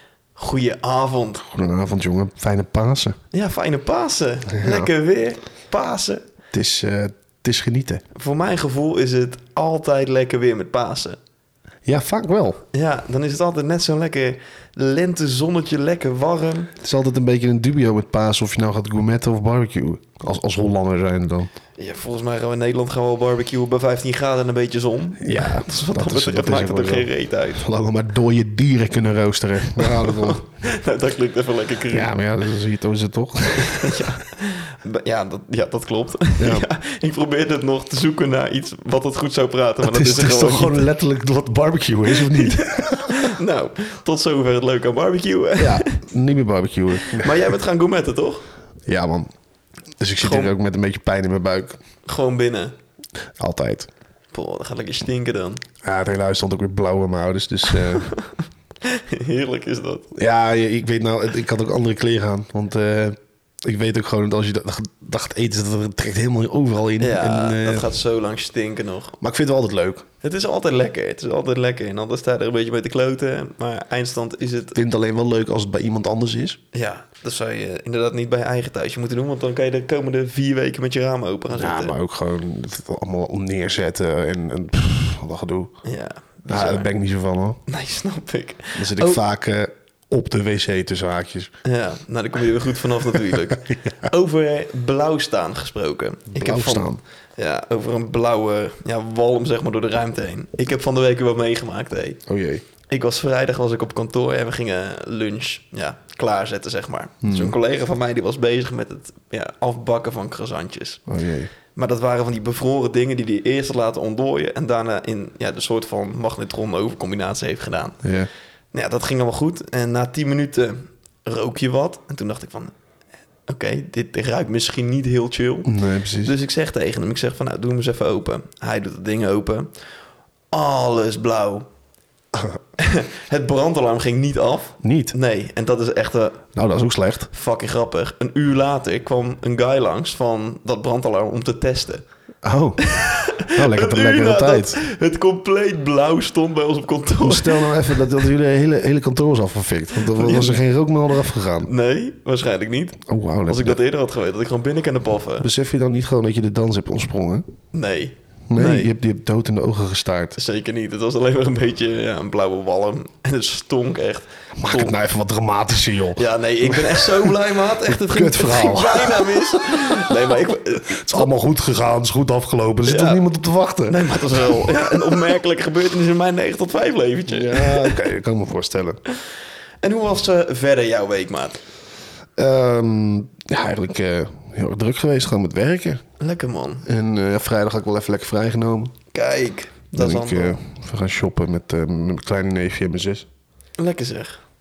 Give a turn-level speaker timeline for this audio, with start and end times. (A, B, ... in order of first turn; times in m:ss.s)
0:00.4-0:01.4 A
0:01.4-0:03.2 B
0:03.3-0:06.3 A
0:04.5-0:04.9 B
0:06.5-0:08.0 B
0:08.2-0:11.2 A
0:11.9-0:12.6 B
0:12.7-0:16.7 A
0:16.8-0:21.5 B
0:21.8-0:27.6 A
0:25.2-0:30.4 B
0:29.8-0:32.1 A
0:31.9-0:34.2 B
0:33.6-0:40.8 A
0:36.4-0:36.7 B
0:39.8-0:43.4 B
0:42.1-0:46.0 A
0:45.6-0:47.5 B
0:47.0-0:48.4 A
0:48.9-0:49.3 B
0:50.0-0:51.8 B
0:50.2-0:50.5 A
0:52.1-0:52.8 A
0:53.4-0:53.9 B
0:54.3-0:55.6 A
0:55.8-0:58.1 B
0:57.7-1:00.1 A
1:00.2-1:07.9 B
1:07.0-1:09.2 A
1:09.2-1:10.1 B
1:10.2-1:14.8 A
1:14.8-1:16.6 B
1:16.7-1:21.9 A
1:21.6-1:25.7 B
1:25.8-1:26.9 A
1:26.5-1:27.6 B
1:27.7-1:29.2 A
1:28.8-1:31.5 B
1:31.6-1:42.2 A
1:36.3-1:37.0 B
1:42.3-1:42.6 B
1:42.9-1:51.0 A
1:47.2-1:47.6 B
1:51.1-1:51.5 B
1:51.8-1:58.0 A
1:58.0-1:58.3 B
1:58.7-2:02.7 A
2:03.5-2:05.7 A
2:05.7-2:06.3 B
2:06.2-2:09.7 A
2:10.5-2:11.7 A
2:12.8-2:16.5 A
2:14.8-2:15.1 B
2:16.6-2:17.3 B
2:17.3-2:22.0 A
2:22.4-2:24.8 B
2:22.8-2:28.0 A
2:27.2-2:31.7 B
2:30.1-2:30.6 A
2:31.6-2:35.5 A
2:33.1-2:33.8 B
2:35.4-2:37.5 B
2:37.7-2:38.9 A
2:38.5-2:40.4 B
2:40.4-2:44.9 A
2:44.6-2:50.1 B
2:46.2-2:51.3 A
2:50.9-2:55.2 B
2:52.8-2:53.2 A
2:53.9-2:58.0 A
2:57.3-2:59.0 B
2:59.8-3:01.6 A
3:02.4-3:06.0 B
3:06.2-3:06.9 A
3:06.8-3:09.0 B
3:09.1-3:10.6 A
3:10.0-3:13.3 B
3:13.8-3:14.4 A